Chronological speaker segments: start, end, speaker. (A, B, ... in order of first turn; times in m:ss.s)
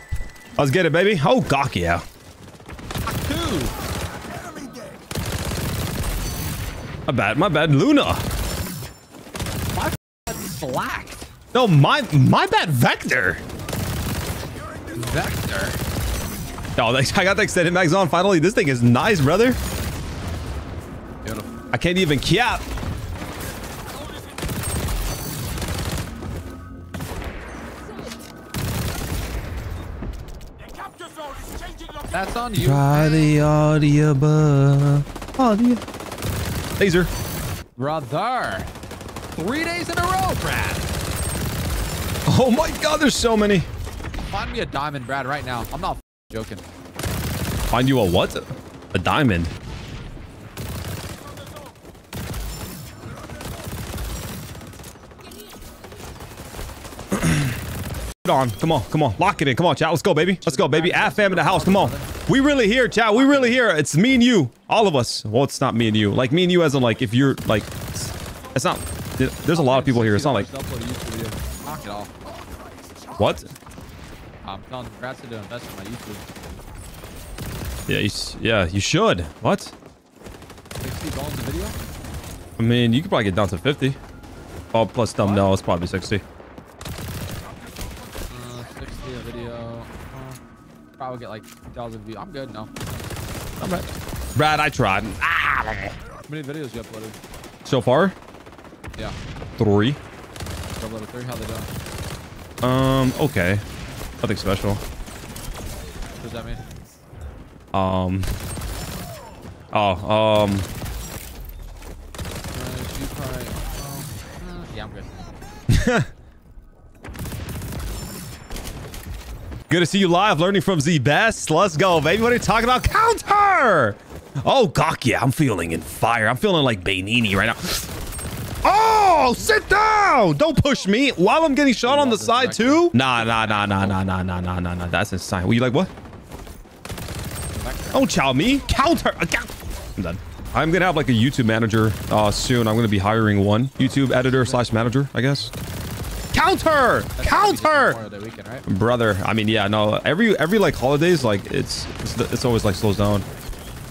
0:00.6-0:02.0 A
0:03.1-0:03.7 B
0:07.1-0:08.2 A
0:09.7-0:11.3 B
0:11.5-0:13.4 A
0:14.9-0:15.8 B
0:16.8-0:19.6 A
0:21.2-0:21.5 B
0:21.7-0:22.6 A
0:30.8-0:33.3 B
0:32.5-0:35.8 A
0:36.8-0:37.1 A
0:37.8-0:38.7 B
0:39.4-0:40.9 B
0:42.2-0:43.7 A
0:44.3-0:46.6 B
0:47.7-0:49.5 A
0:57.1-0:57.5 A
0:58.2-1:10.5 A
1:00.4-1:02.1 B
1:03.1-1:03.6 B
1:09.5-1:12.1 B
1:13.2-1:13.5 A
1:14.4-1:16.3 B
1:17.9-1:19.7 A
1:20.8-1:21.8 B
1:22.6-1:24.0 A
1:24.7-1:26.2 A
1:25.2-1:25.4 B
1:28.3-1:30.4 B
1:31.0-1:32.7 B
1:33.6-1:35.9 A
1:36.2-1:37.2 B
1:37.6-1:38.1 A
1:39.6-1:40.0 A
1:40.8-1:41.7 B
1:42.6-1:43.6 A
1:44.2-1:44.8 A
1:46.2-1:46.6 B
1:47.7-1:48.3 A
1:49.7-1:50.7 A
1:52.5-1:55.2 B
1:55.7-1:56.1 A
1:59.7-2:07.9 A
2:08.6-2:15.9 A
2:11.8-2:14.0 B
2:17.5-2:18.1 B
2:17.9-2:25.5 A
2:24.1-2:24.6 B
2:26.3-2:28.0 A
2:27.2-2:28.6 B
2:28.6-2:33.2 A